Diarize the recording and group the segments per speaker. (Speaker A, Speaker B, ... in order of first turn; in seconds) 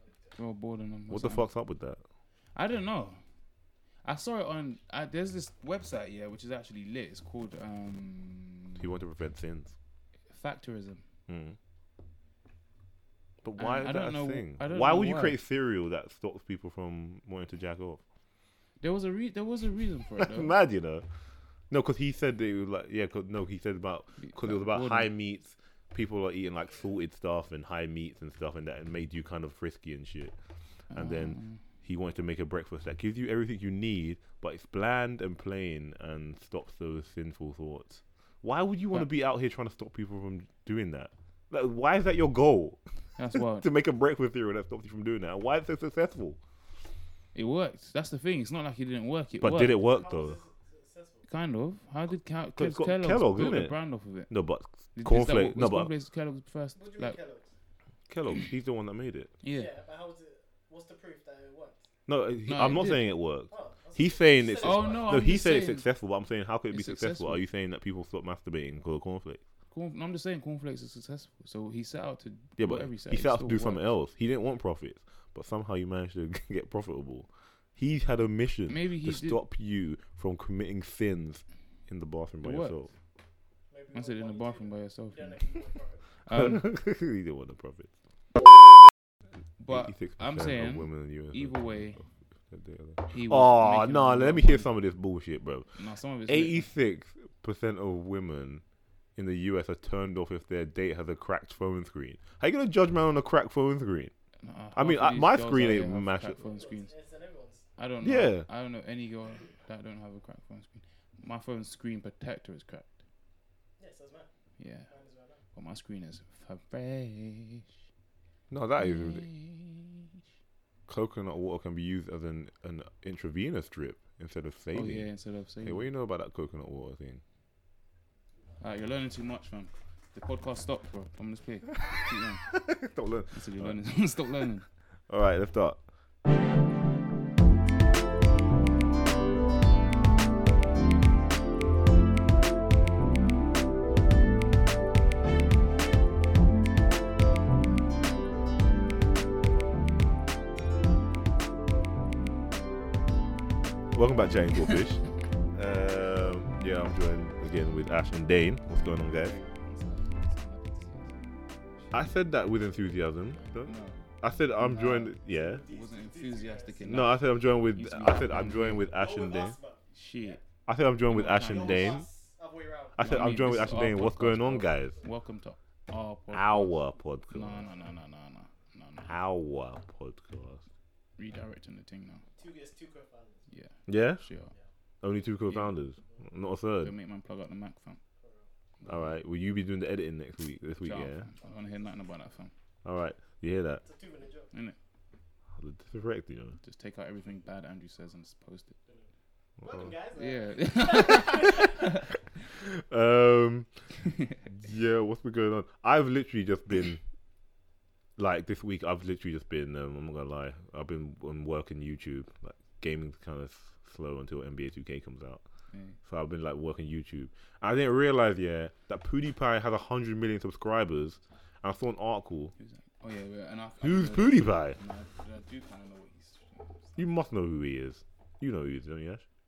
Speaker A: 0.4-1.5, 2.5-3.2, 4.0-8.9, 10.3-11.1, 13.6-15.4, 18.8-20.6, 24.2-25.1, 30.9-31.6, 43.2-43.7, 47.3-49.8, 51.3-54.3, 55.0-57.2, 59.4-59.7, 62.5-63.1, 64.6-65.9, 66.7-67.4, 69.7-73.9, 78.7-79.4, 82.4-82.9, 83.9-85.4, 86.2-86.7, 89.6-92.0, 93.1-94.7, 95.8-96.7, 104.4-106.9, 107.8-113.0, 114.6-114.9, 115.5-117.8, 118.8-120.1, 124.7-125.9, 128.6-132.6, 133.3-134.7, 159.2-161.2, 163.6-164.1, 164.6-167.2, 167.7-168.9, 169.9-170.4, 171.1-172.0, 173.0-179.1, 181.2-182.2, 183.5-184.5, 185.5-185.7, 186.8-188.0, 188.8-189.1, 190.8-192.5, 196.6-198.8, 200.2-202.2, 215.7-216.0, 222.6-227.0
Speaker B: 1.1-2.0, 8.8-9.8, 11.3-11.6, 13.4-18.0, 20.2-21.1, 21.7-30.4, 30.9-42.8, 43.3-46.4, 49.4-50.4, 52.6-55.9, 58.1-59.3, 62.1-69.4, 72.6-82.9, 86.3-87.9, 89.7-95.7, 96.3-98.6, 99.2-104.1, 104.8-106.4, 108.0-108.5, 118.5-119.3, 120.9-125.1, 125.6-127.2, 132.5-133.8, 135.1-135.8, 153.9-159.4, 161.9-165.6, 166.9-169.6, 170.7-172.1, 173.0-175.0, 176.3-177.7, 179.1-180.6, 183.9-184.2, 185.0-186.9, 188.9-191.3, 192.8-193.8, 195.6-196.6, 199.6-199.9, 202.6-203.9, 204.5-207.0, 208.2-215.4, 216.0-222.5, 223.8-224.8, 227.0-229.2
Speaker C: 49.8-51.2, 56.8-57.5, 59.5-61.8, 63.5-65.1, 83.7-86.0, 106.4-107.7, 113.8-114.3, 114.9-115.4, 164.8-167.1, 168.8-170.4, 171.3-173.1, 182.4-183.4, 193.8-194.5, 199.6-201.9